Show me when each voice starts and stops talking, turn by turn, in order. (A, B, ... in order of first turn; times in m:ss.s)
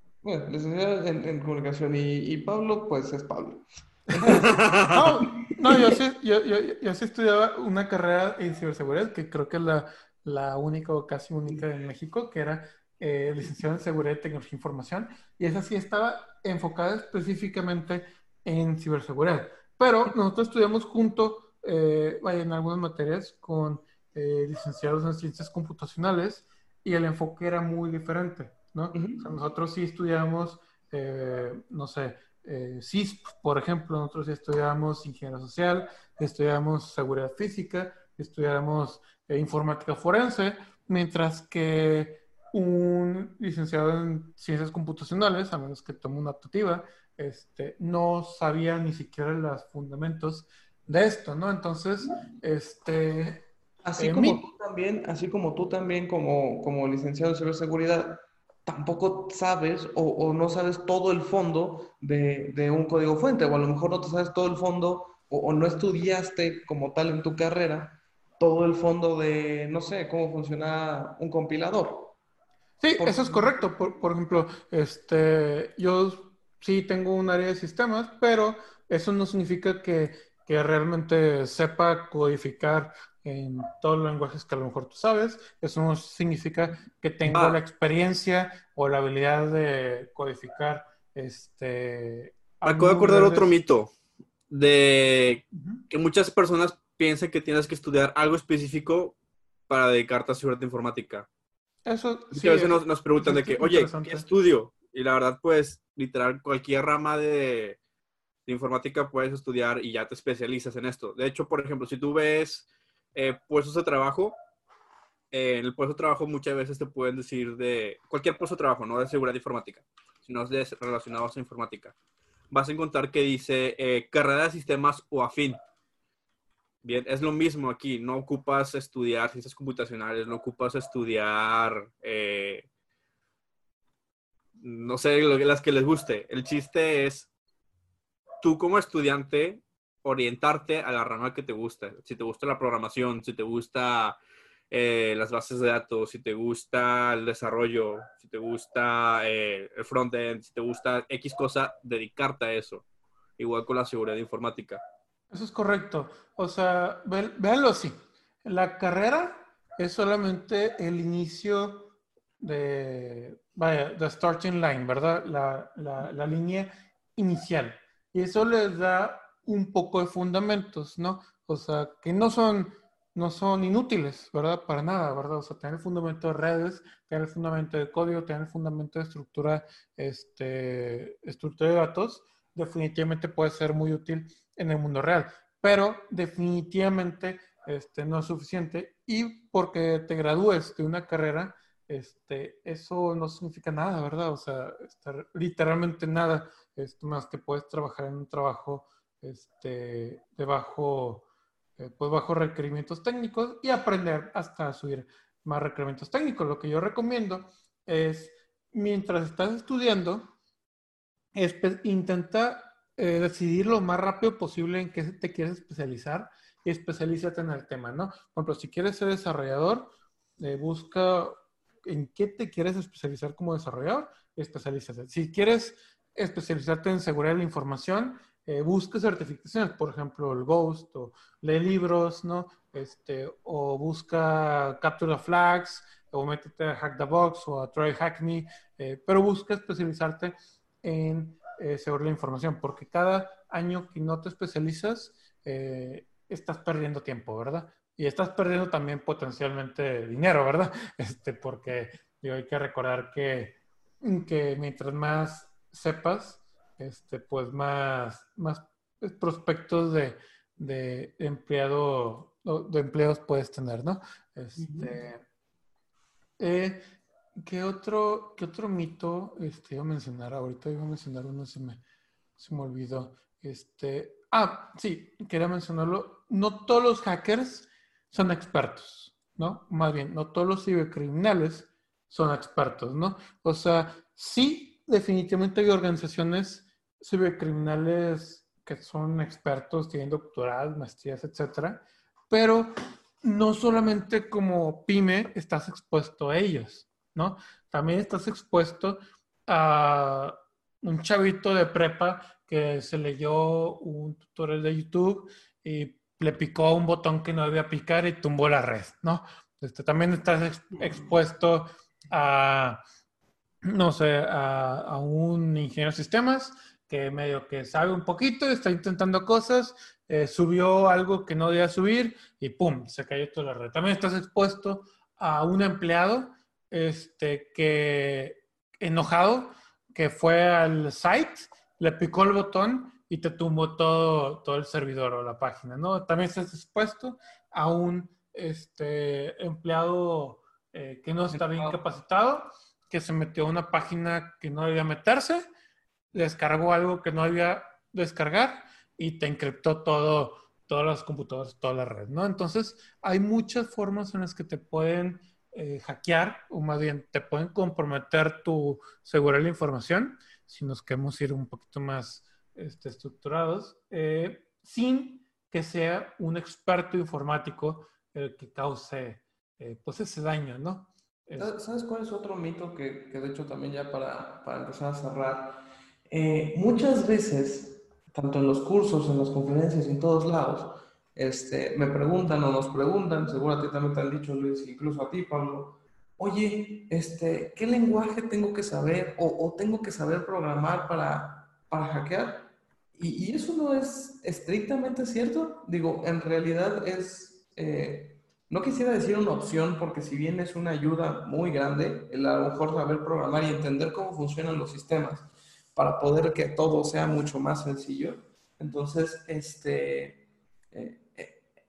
0:00.2-0:04.6 A
0:04.2-0:53.5 B
0:04.3-0:05.0 C
0:05.6-0:06.0 A
0:28.9-0:29.2 A
0:53.8-1:12.2 A
0:54.0-0:54.4 B
1:12.8-1:33.5 B
1:13.0-1:13.7 A
1:27.3-1:27.6 C
1:32.6-1:33.9 C
1:34.5-1:39.2 C
1:35.5-1:35.8 B
1:39.7-1:41.3 C
1:41.9-1:44.3 B
1:42.3-1:47.8 C
1:48.5-1:54.4 C
1:55.3-2:01.9 C
2:02.5-2:05.6 C
2:06.8-2:12.6 C
2:14.6-2:17.3 C
2:18.4-2:24.2 C
2:24.7-2:32.8 C
2:33.4-2:34.8 C
2:35.3-3:21.3 B
3:21.8-3:30.3 B
3:31.4-4:25.2 B
4:24.6-4:24.9 A
4:26.4-4:26.8 B
4:27.4-4:31.8 B
4:32.4-5:12.8 B
5:13.6-5:45.4 B
5:41.3-5:41.8 A
5:46.1-6:11.5 B
6:11.4-6:51.4 A